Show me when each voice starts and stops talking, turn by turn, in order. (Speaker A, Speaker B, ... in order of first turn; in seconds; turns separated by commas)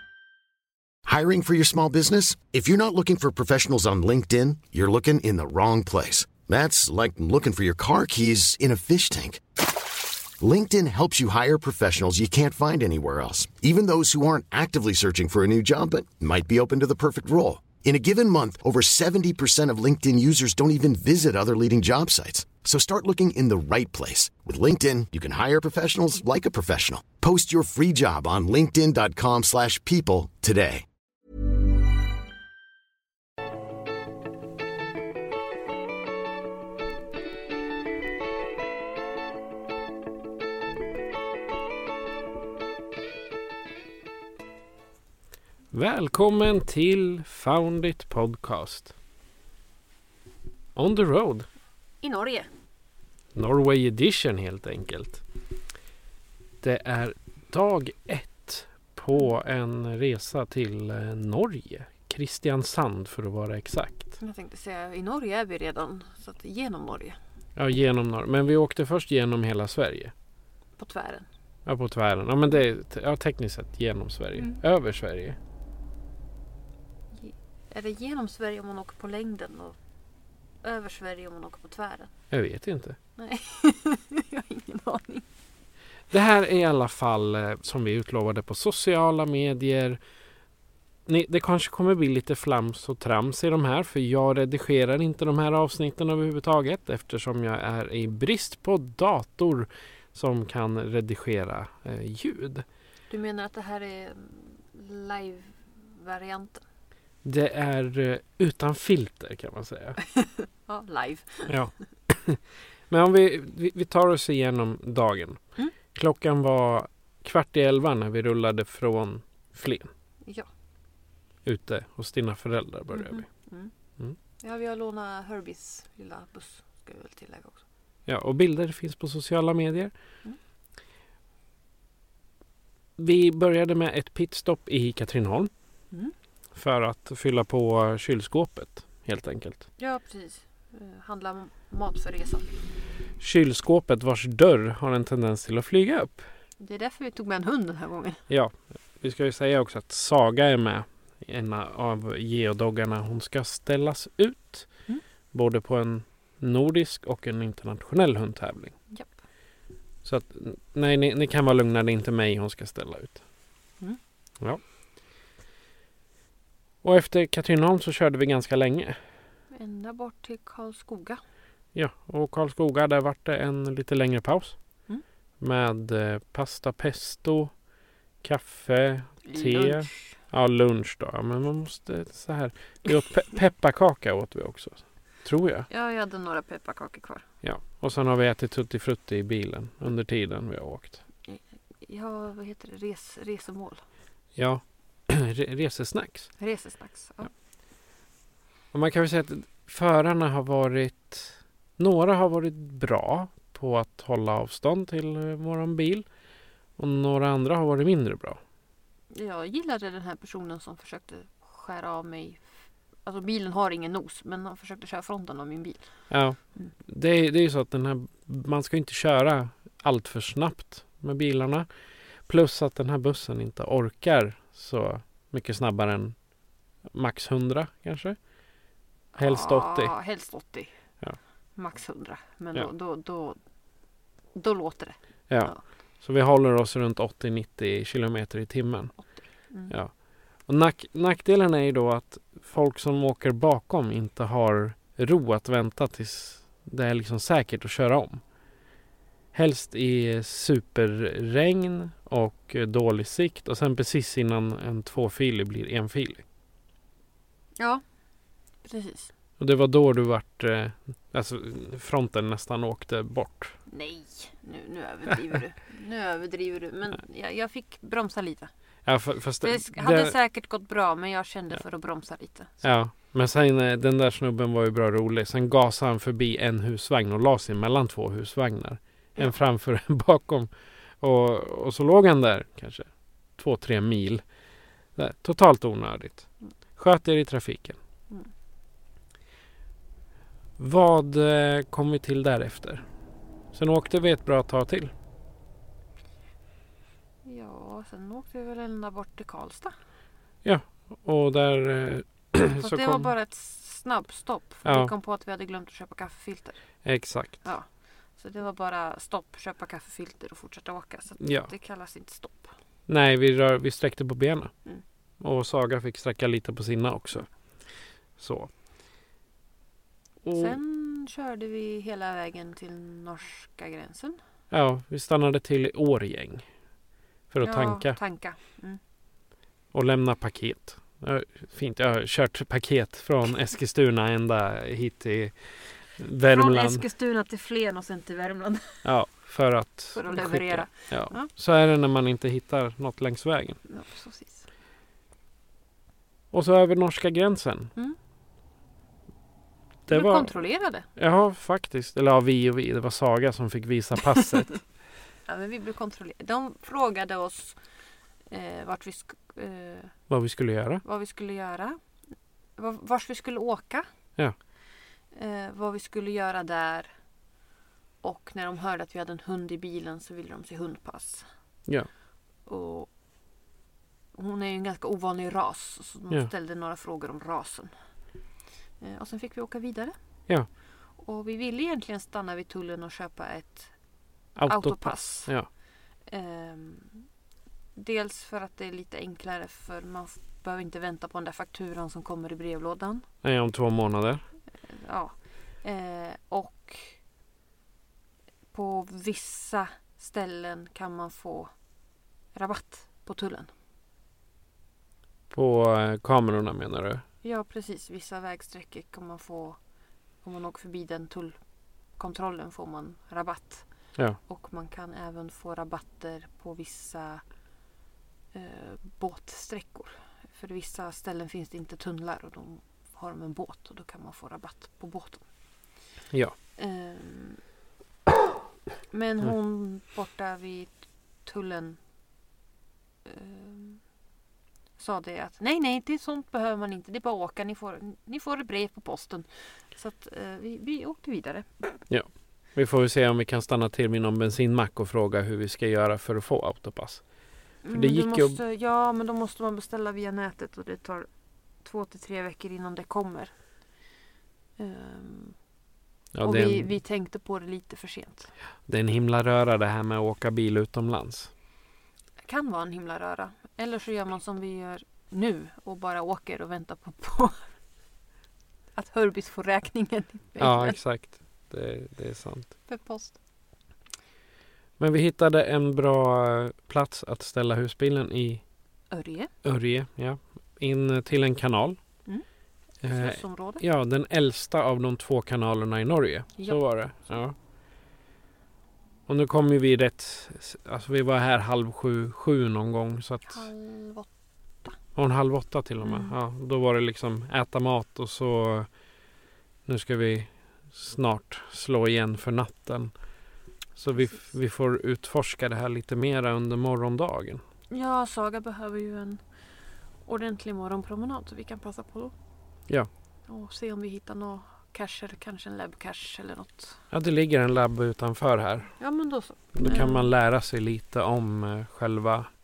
Speaker A: 1.1-9.4, Speaker A: 10.4-30.9, Speaker B: 45.7-48.9, Speaker B: 50.8-51.5, Speaker C: 52.0-52.5, Speaker B: 53.4-55.2, Speaker B: 56.6-64.2, Speaker C: 64.2-67.2, Speaker B: 67.6-70.1, Speaker C: 70.8-71.3, Speaker B: 71.7-75.4, Speaker C: 77.1-79.8, Speaker C: 80.6-82.1, Speaker B: 82.3-83.0, Speaker C: 83.2-85.3, Speaker B: 86.1-90.0, Speaker B: 91.1-102.6, Speaker C: 103.1-106.6, Speaker B: 107.2-110.0, Speaker C: 110.1-111.5, Speaker B: 111.5-115.4, Speaker B: 115.9-119.9, Speaker B: 121.5-123.3, Speaker C: 122.9-123.7, Speaker C: 124.4-127.6, Speaker B: 128.1-129.9, Speaker B: 133.0-135.5, Speaker B: 136.6-139.7, Speaker C: 139.8-142.5, Speaker B: 143.2-146.2, Speaker C: 146.6-148.2, Speaker B: 148.3-154.7, Speaker B: 155.3-158.8, Speaker C: 158.9-159.2, Speaker B: 160.0-163.2, Speaker B: 166.8-169.0, Speaker C: 169.5-171.2, Speaker B: 171.8-174.6, Speaker B: 175.4-177.5, Speaker B: 178.2-185.7, Speaker C: 179.3-180.2, Speaker C: 185.7-187.2, Speaker B: 187.4-191.0, Speaker C: 191.2-193.8, Speaker B: 194.4-196.3, Speaker C: 196.4-197.3, Speaker B: 198.7-206.1, Speaker B: 206.8-208.4, Speaker C: 209.1-212.5, Speaker C: 213.1-215.9, Speaker B: 216.1-221.7, Speaker B: 222.3-226.2, Speaker B: 226.9-228.2, Speaker C: 229.2-230.7, Speaker B: 229.2-230.0, Speaker C: 231.6-233.4, Speaker C: 234.3-235.6, Speaker B: 235.3-248.2, Speaker C: 239.0-239.7, Speaker B: 249.3-256.2, Speaker C: 258.6-259.1, Speaker B: 259.4-263.6, Speaker C: 263.7-268.5, Speaker B: 268.9-270.1, Speaker C: 269.4-272.6, Speaker B: 272.6-280.5, Speaker B: 281.0-284.2, Speaker B: 285.0-287.8, Speaker B: 290.6-292.8, Speaker B: 293.5-294.9, Speaker C: 297.2-299.7, Speaker B: 300.4-303.1, Speaker C: 302.6-306.6, Speaker B: 304.6-304.9, Speaker B: 306.9-307.4, Speaker C: 307.4-312.5, Speaker B: 311.2-311.5, Speaker B: 312.9-314.5, Speaker B: 315.2-317.3, Speaker B: 318.2-318.5, Speaker B: 320.2-320.6, Speaker C: 320.3-324.2, Speaker B: 324.5-326.5, Speaker B: 327.3-328.0, Speaker C: 327.4-328.8, Speaker B: 329.7-336.8, Speaker C: 336.3-338.9, Speaker B: 338.8-343.6, Speaker C: 339.9-341.3, Speaker C: 343.6-344.5, Speaker B: 346.3-347.7, Speaker B: 349.9-350.3, Speaker C: 349.9-350.9, Speaker B: 350.9-354.6, Speaker C: 355.3-357.6, Speaker C: 358.3-360.0, Speaker B: 360.1-360.8, Speaker C: 360.8-361.8, Speaker C: 362.6-363.9, Speaker C: 365.1-366.9, Speaker C: 368.0-371.3, Speaker C: 372.4-372.9, Speaker C: 374.1-377.7, Speaker C: 378.8-379.9, Speaker C: 381.0-383.7, Speaker B: 384.4-385.5, Speaker C: 384.5-385.3, Speaker C: 386.1-387.1, Speaker C: 387.8-393.1, Speaker B: 393.2-394.2, Speaker C: 394.6-397.0, Speaker C: 398.5-401.5, Speaker C: 402.3-403.5, Speaker B: 405.3-407.0, Speaker C: 407.2-409.6, Speaker C: 410.2-411.4, Speaker C: 412.0-413.7, Speaker C: 414.2-417.2, Speaker C: 418.3-425.2, Speaker C: 426.6-427.4, Speaker C: 428.9-431.8, Speaker C: 433.1-433.8, Speaker C: 434.8-441.7, Speaker B: 441.9-447.0, Speaker C: 447.6-451.1, Speaker B: 447.7-448.4, Speaker C: 451.6-453.3, Speaker C: 454.6-455.4, Speaker B: 456.1-456.8, Speaker C: 456.2-458.3, Speaker B: 458.7-461.3, Speaker C: 462.2-467.5, Speaker C: 468.8-470.8, Speaker B: 470.4-472.6, Speaker C: 472.7-473.2, Speaker B: 474.8-478.4, Speaker C: 478.9-479.3, Speaker B: 479.4-481.8, Speaker B: 482.8-487.4, Speaker C: 482.8-483.6, Speaker C: 486.4-487.1, Speaker B: 489.1-493.5, Speaker C: 493.3-494.1, Speaker B: 494.9-498.7, Speaker C: 495.8-496.2, Speaker B: 499.7-502.9, Speaker B: 503.8-507.4, Speaker C: 507.7-509.2, Speaker C: 510.1-512.1, Speaker C: 513.3-516.8, Speaker B: 516.9-518.8, Speaker C: 518.8-520.1, Speaker B: 519.5-522.3